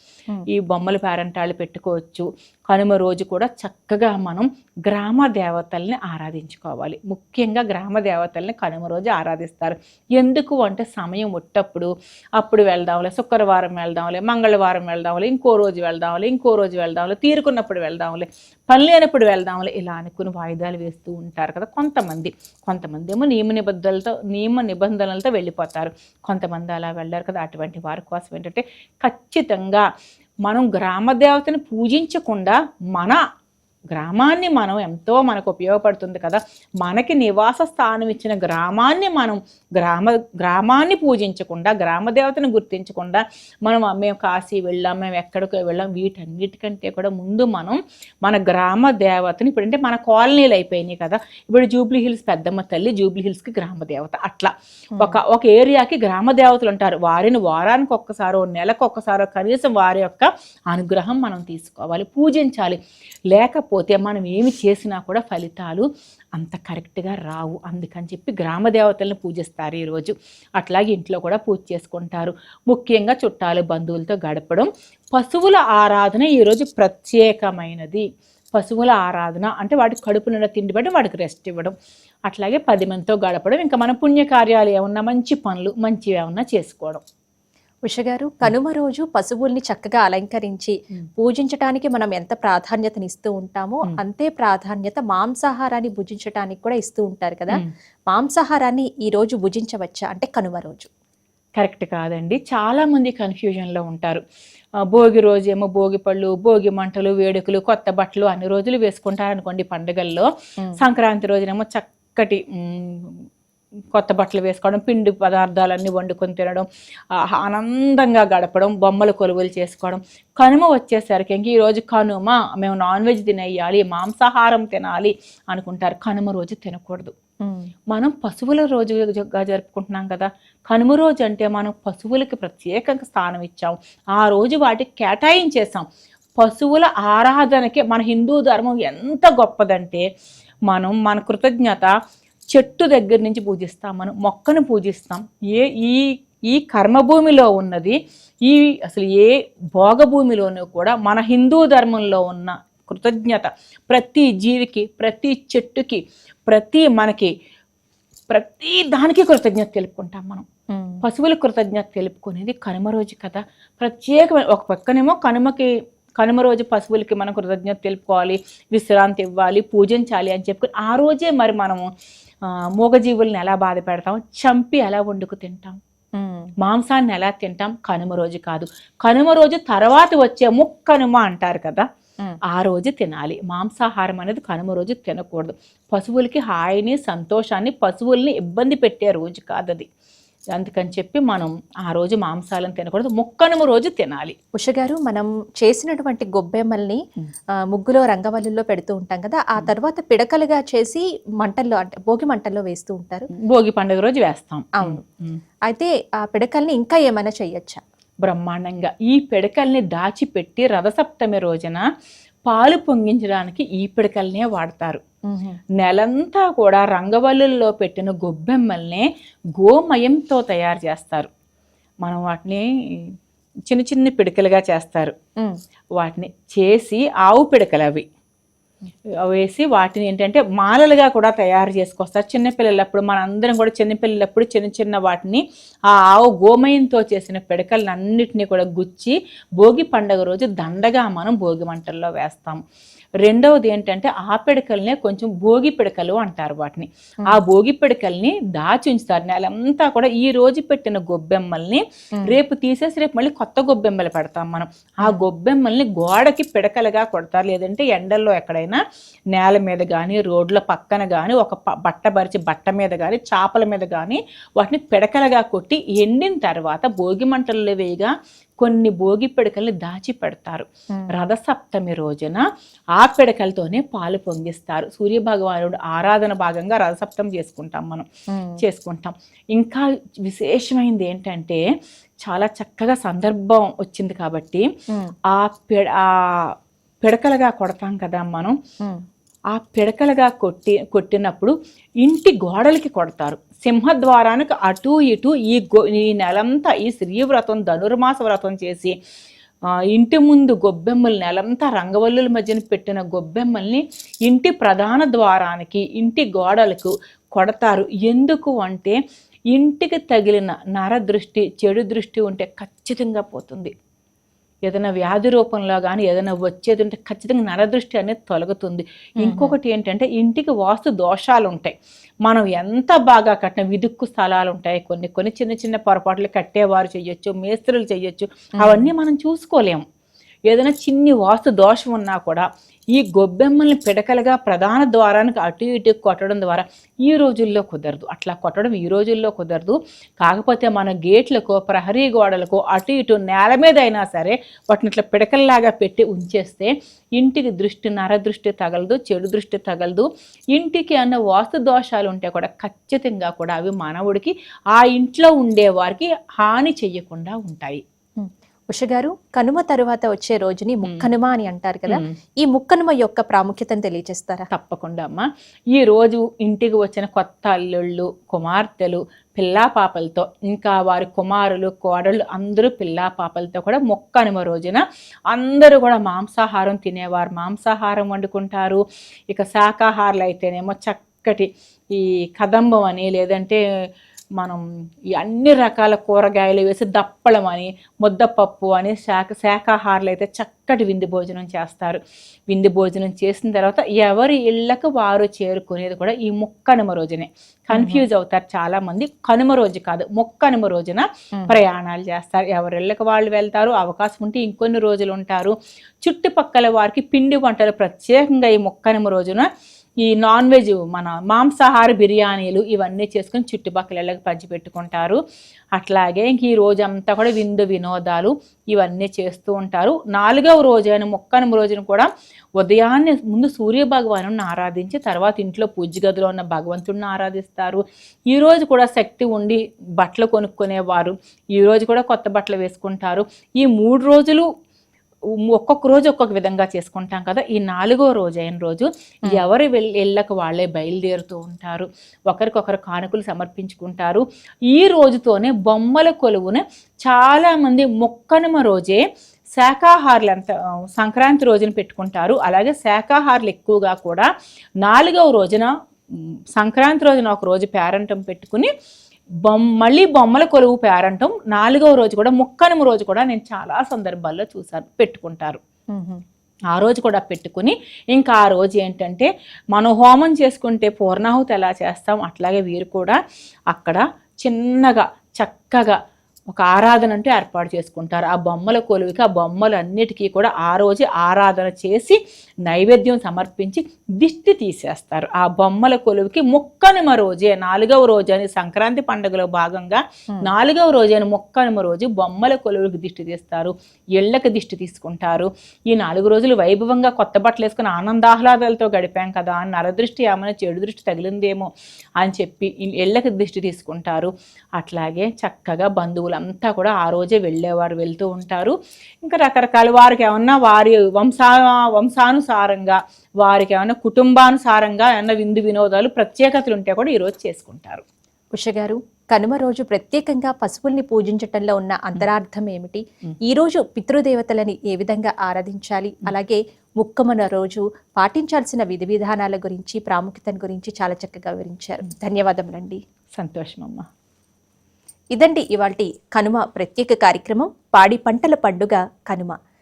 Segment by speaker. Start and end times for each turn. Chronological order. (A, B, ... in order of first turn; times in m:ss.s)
0:00.5-0:29.8 A
0:30.4-0:33.2 A
0:33.9-1:02.8 A
1:03.3-1:21.7 A
1:22.3-1:27.0 A
1:27.9-1:40.9 B
1:41.6-1:44.2 A
1:44.9-1:53.2 A
1:53.9-2:07.1 A
2:07.4-2:07.7 B
2:07.9-2:15.8 A
2:16.4-2:20.1 A
2:20.7-2:21.9 A
2:22.5-2:37.3 A
2:38.3-2:40.4 A
2:40.7-2:41.0 B
2:41.0-2:51.9 A
2:52.4-2:55.8 A
2:56.2-2:56.5 B
2:56.6-3:01.8 A
3:02.5-3:09.8 A
3:10.5-3:14.3 A
3:14.6-3:17.0 B
3:17.7-3:23.3 B
3:23.3-3:25.4 A
3:24.8-3:25.0 B
3:25.7-3:27.8 B
3:28.2-3:31.8 A
3:32.5-3:35.0 A
3:35.3-3:35.6 B
3:35.8-3:41.3 A
3:42.0-3:43.1 A
3:43.7-3:45.1 A
3:46.0-3:48.0 A
3:49.2-4:02.6 A
4:03.2-4:18.8 A
4:19.3-4:32.4 A
4:33.0-4:38.0 A
4:38.3-4:38.6 B
4:38.6-4:41.6 A
4:42.2-4:44.7 A
4:45.3-4:46.5 A
4:47.0-4:48.6 A
4:49.5-4:58.9 A
4:59.9-5:09.0 A
5:09.5-5:13.7 A
5:14.7-5:21.7 A
5:19.2-5:19.5 B
5:22.2-5:29.8 A
5:28.6-5:28.9 B
5:30.5-5:57.8 A
5:58.2-6:04.5 B
6:01.9-6:02.1 A
6:04.5-6:23.6 A
6:25.1-6:49.5 A
6:37.7-6:38.0 B
6:50.0-6:55.2 A
6:55.8-7:14.5 A
7:15.5-7:29.0 A
7:29.5-7:34.3 A
7:34.8-7:38.7 A
7:39.4-7:45.6 A
7:45.9-7:46.2 B
7:46.7-7:53.2 A
7:53.7-7:56.0 A
7:56.5-8:38.0 A
8:38.5-8:53.0 B
8:53.4-8:54.1 A
8:55.3-8:59.6 B